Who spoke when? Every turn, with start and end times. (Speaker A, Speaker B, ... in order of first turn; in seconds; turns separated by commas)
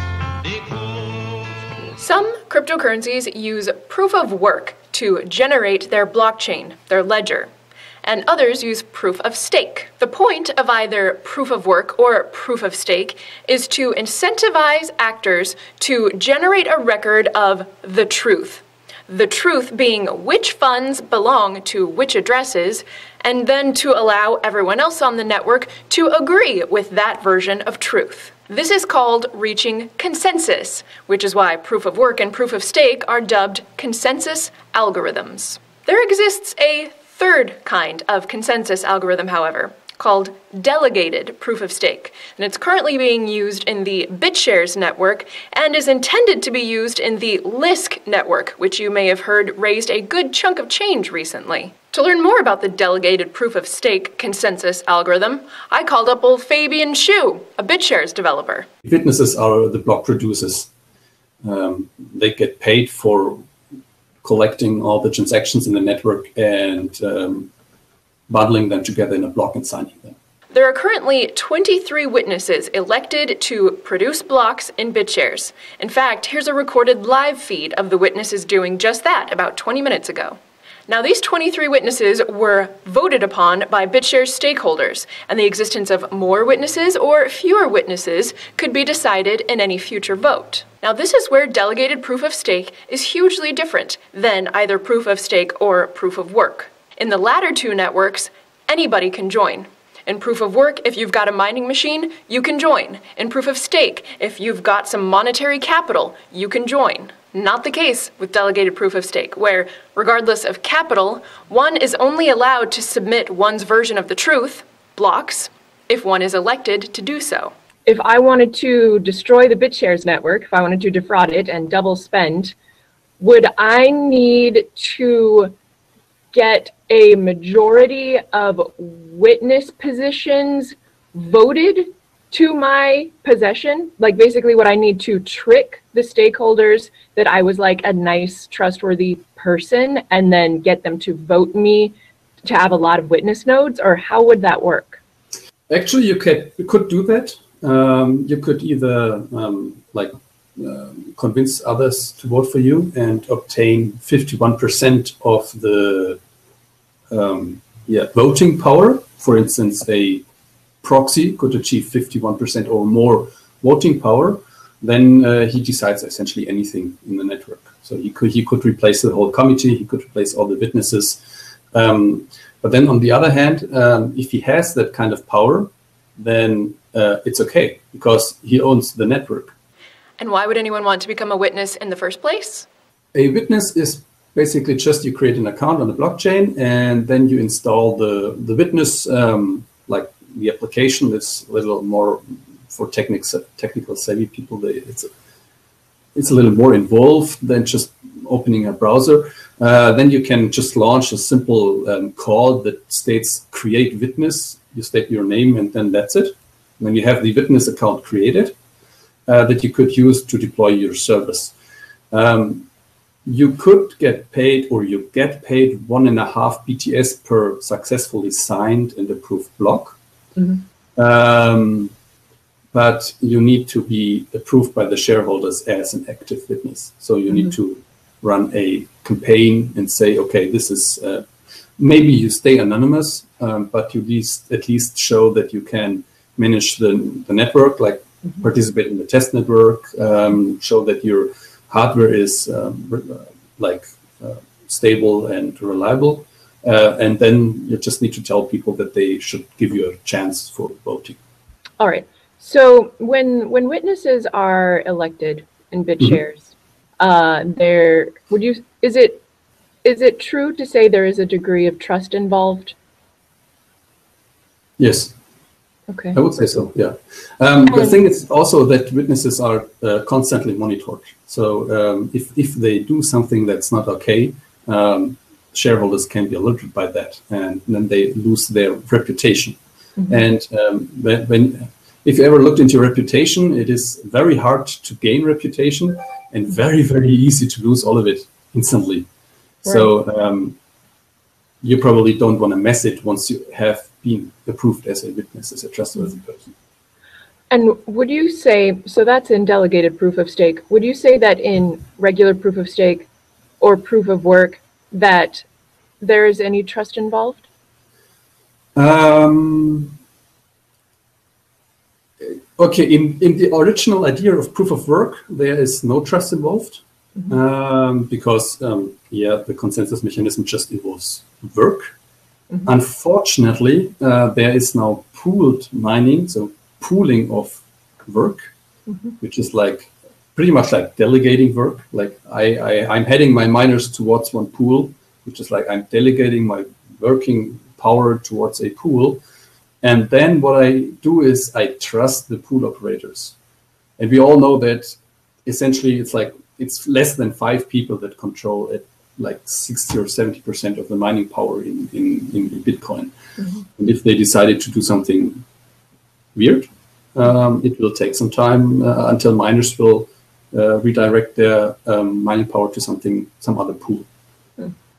Speaker A: 1.9-7.5, Speaker A: 8.0-58.7, Speaker B: 58.8-60.7, Speaker B: 61.4-63.4, Speaker B: 64.2-67.5, Speaker B: 68.3-70.1, Speaker A: 70.5-117.5, Speaker C: 117.9-122.5, Speaker C: 123.2-125.5, Speaker C: 126.3-145.0, Speaker B: 145.7-156.2, Speaker B: 157.1-160.2, Speaker B: 160.8-171.2, Speaker B: 171.7-179.5, Speaker A: 180.2-182.7, Speaker B: 183.1-195.1, Speaker B: 196.1-208.5, Speaker B: 209.3-211.5, Speaker B: 212.1-212.7, Speaker B: 213.3-220.0, Speaker B: 220.9-221.9, Speaker B: 222.7-231.3, Speaker B: 231.8-251.2, Speaker C: 251.8-259.2, Speaker C: 259.8-262.8, Speaker B: 264.8-265.1, Speaker C: 265.9-266.1, Speaker B: 266.1-289.1, Speaker C: 267.7-268.0, Speaker B: 289.6-290.6, Speaker B: 291.6-296.5, Speaker C: 297.5-303.1, Speaker C: 303.6-305.4, Speaker C: 306.0-307.5, Speaker B: 308.8-309.9, Speaker B: 312.2-321.9, Speaker B: 322.6-328.5, Speaker B: 329.2-339.2, Speaker B: 339.8-343.3, Speaker B: 344.0-353.1, Speaker B: 353.7-355.4, Speaker B: 356.3-364.1